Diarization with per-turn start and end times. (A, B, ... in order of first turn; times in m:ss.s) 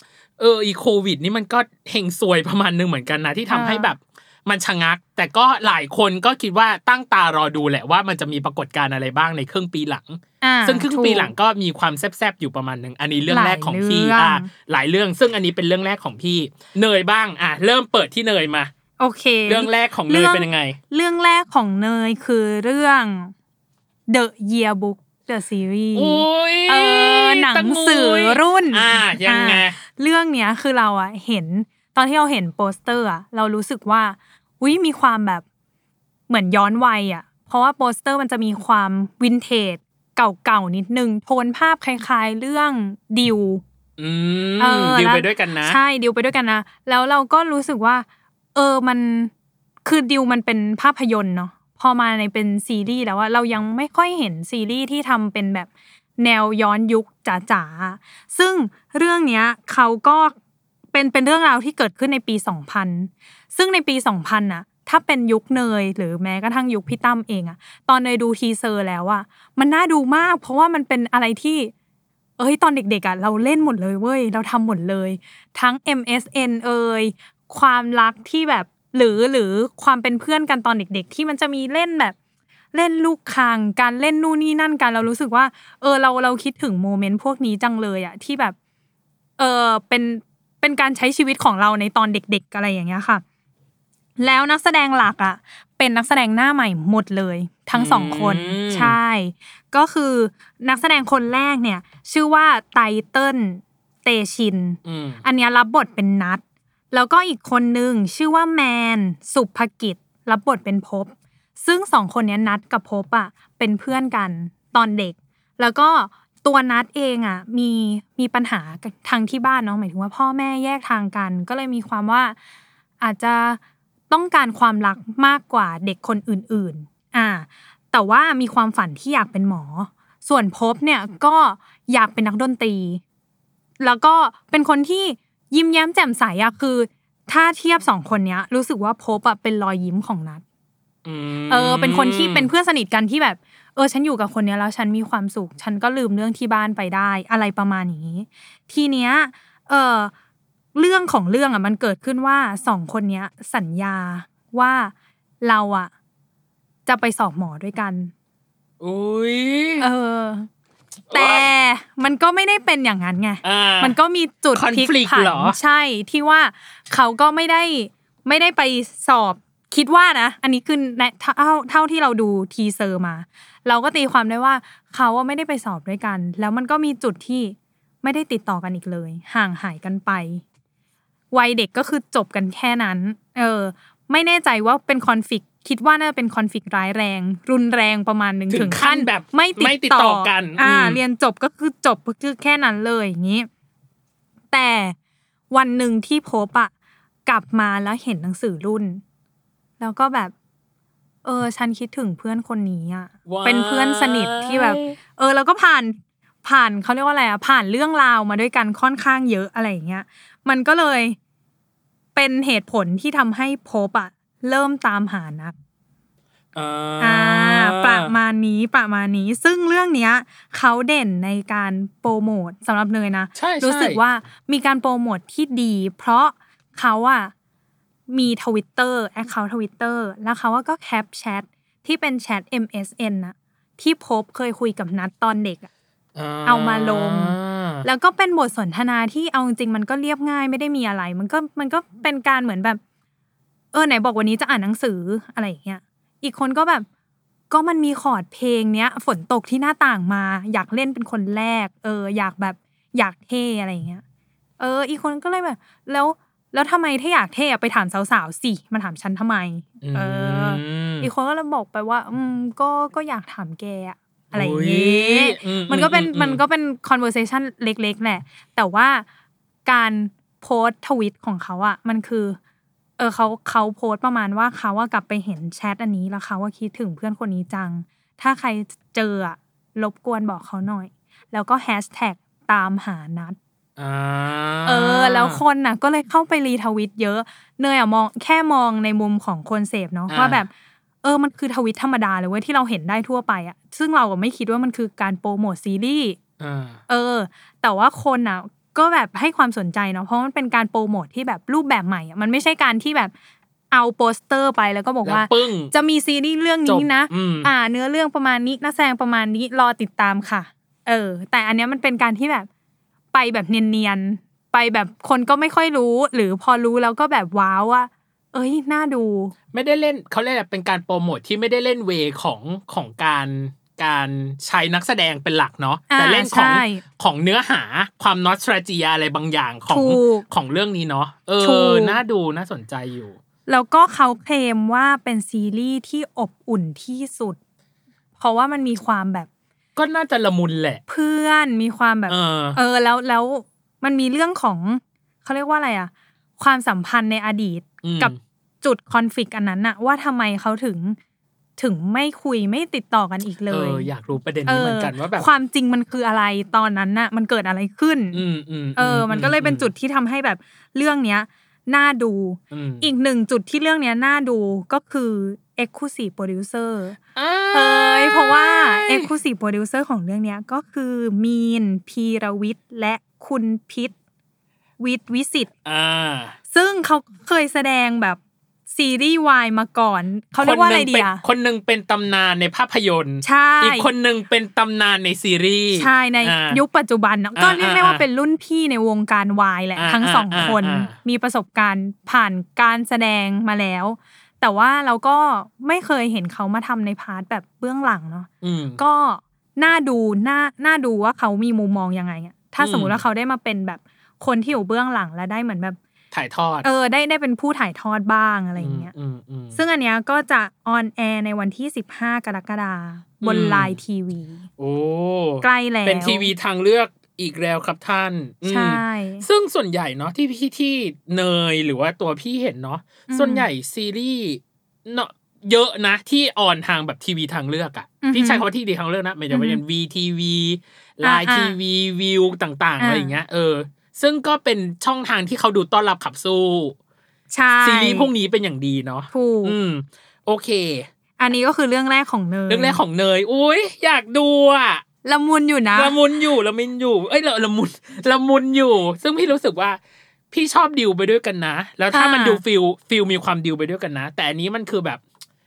0:00.4-0:18.7 A
0:03.5-0:03.9 B
0:10.4-0:11.3 B
0:13.3-0:14.5 B
0:19.0-0:23.3 B
0:19.5-0:20.8 A
0:24.1-0:35.4 B
0:25.9-0:29.8 A
0:36.3-0:43.6 B
0:44.0-0:45.8 A
0:44.6-0:49.3 B
0:49.8-1:00.4 B
1:00.9-1:11.7 B
1:12.4-1:22.1 B
1:22.7-1:28.5 B
1:29.4-1:33.2 B
1:34.2-2:02.4 B
1:37.7-1:39.0 A
1:44.8-1:45.2 A
2:03.0-2:13.0 B
2:13.8-2:20.4 B
2:21.0-2:22.5 A
2:21.5-2:30.1 B
2:30.7-2:35.9 B
2:36.8-2:38.1 B
2:38.8-2:39.9 A
2:39.8-2:40.5 B
2:41.1-2:41.4 A
2:41.1-3:00.4 B
2:43.4-2:43.9 A
2:44.5-2:45.6 A
3:01.3-3:13.5 B
3:08.5-3:11.0 A
3:14.5-3:14.9 B
3:15.5-3:16.7 B
3:17.2-3:19.0 B
3:19.8-3:20.3 B
3:21.2-3:31.2 B
3:23.3-3:24.9 A
3:32.1-3:35.5 B
3:36.5-3:38.1 A
3:37.0-3:47.3 B
3:43.4-3:44.0 A
3:48.1-3:55.7 B
3:56.1-3:57.8 A
3:56.4-4:02.8 B
4:03.7-4:06.8 B
4:07.5-4:14.0 B
4:14.6-4:29.0 B
4:19.8-4:21.1 A
4:24.3-4:26.4 A
4:29.6-4:32.4 B
4:33.0-4:43.4 B
4:43.8-4:45.4 A
4:44.6-4:50.5 B
4:50.1-4:50.4 A
4:51.0-4:56.2 B
4:56.4-4:56.8 A
4:56.9-5:03.1 B
5:03.7-5:12.5 B
5:05.0-5:05.7 A
5:06.6-5:07.5 A
5:13.1-5:19.3 B
5:19.5-5:33.2 A
5:25.9-5:26.8 B
5:29.7-5:30.2 B
5:31.4-5:32.0 B
5:33.5-5:37.4 B
5:38.2-5:39.3 B
5:39.8-5:40.8 A
5:40.9-5:51.0 B
5:42.1-5:42.6 A
5:47.8-5:48.2 A
5:51.6-5:53.9 B
5:53.5-5:55.3 A
5:54.4-5:58.2 B
5:58.1-5:59.7 A
5:58.8-6:07.0 B
6:02.5-6:02.9 A
6:07.2-6:09.1 A
6:07.5-6:13.9 B
6:14.8-6:15.5 B
6:15.6-6:16.3 A
6:16.5-6:18.2 B
6:18.7-6:21.2 B
6:20.4-6:26.6 A
6:23.2-6:23.9 B
6:25.7-6:45.8 B
6:27.4-6:28.0 A
6:29.8-6:30.9 A
6:38.4-6:38.8 A
6:42.6-6:43.0 A
6:46.1-6:46.7 A
6:46.6-6:48.9 B
6:48.6-6:49.6 A
6:49.6-6:54.4 B
6:53.2-6:53.8 A
6:54.6-7:16.7 A
6:55.4-6:56.3 B
6:58.4-6:59.2 B
7:03.1-7:03.4 B
7:08.0-7:08.4 B
7:09.3-7:09.6 B
7:11.0-7:11.6 B
7:12.8-7:13.1 B
7:17.3-7:18.1 B
7:17.6-7:20.9 A
7:19.1-7:19.6 B
7:21.2-7:22.8 B
7:22.5-7:24.8 A
7:25.0-7:25.9 B
7:25.7-7:29.8 A
7:30.3-7:35.0 A
7:31.9-7:32.4 B